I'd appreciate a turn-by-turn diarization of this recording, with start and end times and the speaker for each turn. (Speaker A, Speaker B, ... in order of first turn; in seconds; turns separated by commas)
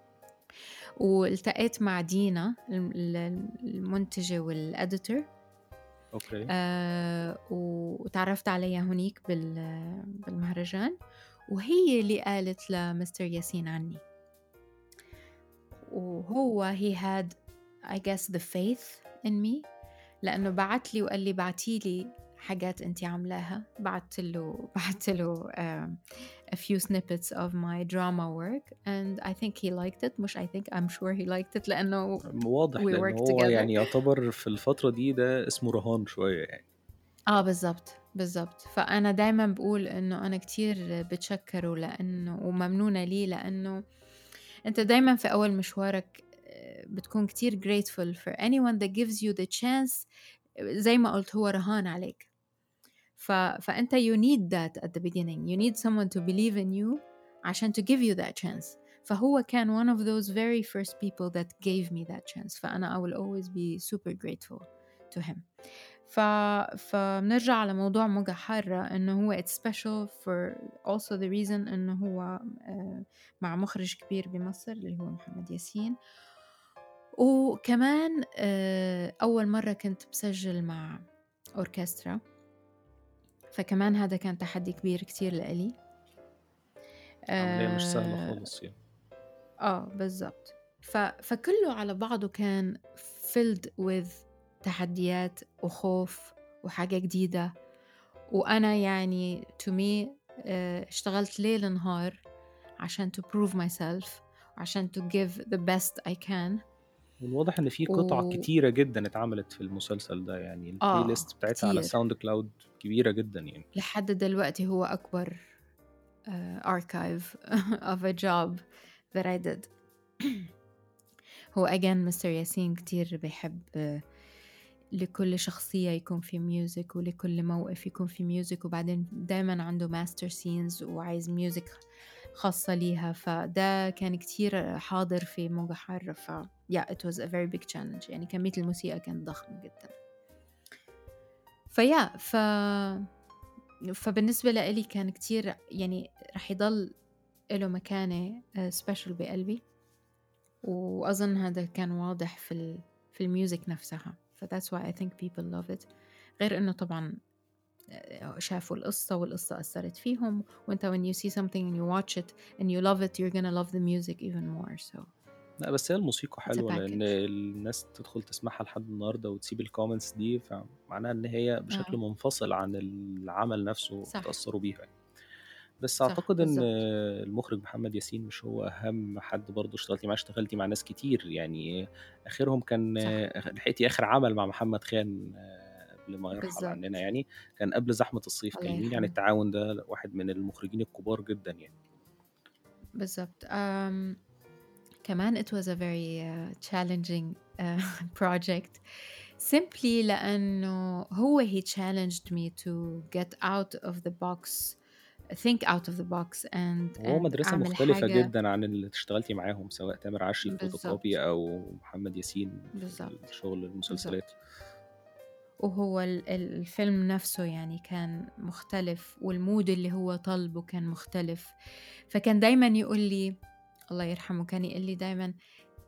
Speaker A: 1.0-5.3, Speaker B: 6.1-6.5, Speaker A: 6.5-10.9, Speaker A: 11.5-14.0, Speaker A: 15.9-17.4, Speaker A: 17.9-19.7, Speaker A: 20.2-26.0, Speaker A: 26.5-32.2, Speaker B: 32.3-36.6, Speaker A: 32.8-33.8, Speaker A: 37.3-43.8, Speaker A: 44.7-50.1, Speaker A: 50.8-52.3, Speaker A: 53.2-65.5, Speaker A: 66.0-76.0, Speaker A: 77.2-81.0, Speaker A: 81.6-82.2, Speaker A: 83.5-85.7, Speaker A: 87.3-88.5, Speaker B: 87.4-88.7, Speaker A: 89.6-97.5, Speaker A: 98.3-102.2, Speaker A: 102.8-106.6, Speaker B: 107.2-113.7, Speaker A: 107.9-108.5, Speaker A: 110.8-112.0, Speaker A: 113.8-115.4, Speaker A: 116.3-120.5, Speaker A: 121.5-124.0, Speaker A: 125.0-131.8, Speaker A: 132.4-139.9, Speaker A: 141.7-143.1, Speaker A: 144.0-146.9, Speaker A: 147.5-149.6, Speaker A: 150.6-157.2, Speaker A: 157.9-165.1, Speaker B: 165.6-174.9, Speaker A: 166.5-167.1, Speaker A: 171.7-172.0, Speaker A: 174.1-174.3, Speaker B: 175.8-181.7, Speaker A: 176.1-176.7, Speaker B: 182.3-191.7, Speaker A: 183.0-183.2, Speaker A: 186.4-186.8, Speaker A: 188.6-189.1, Speaker A: 193.0-194.2, Speaker A: 195.0-198.8, Speaker A: 199.4-204.8, Speaker A: 205.3-208.3, Speaker B: 207.0-214.3, Speaker A: 210.4-211.0, Speaker A: 212.8-213.2, Speaker A: 213.9-214.2, Speaker A: 215.6-221.5, Speaker A: 222.1-223.4, Speaker A: 223.9-225.3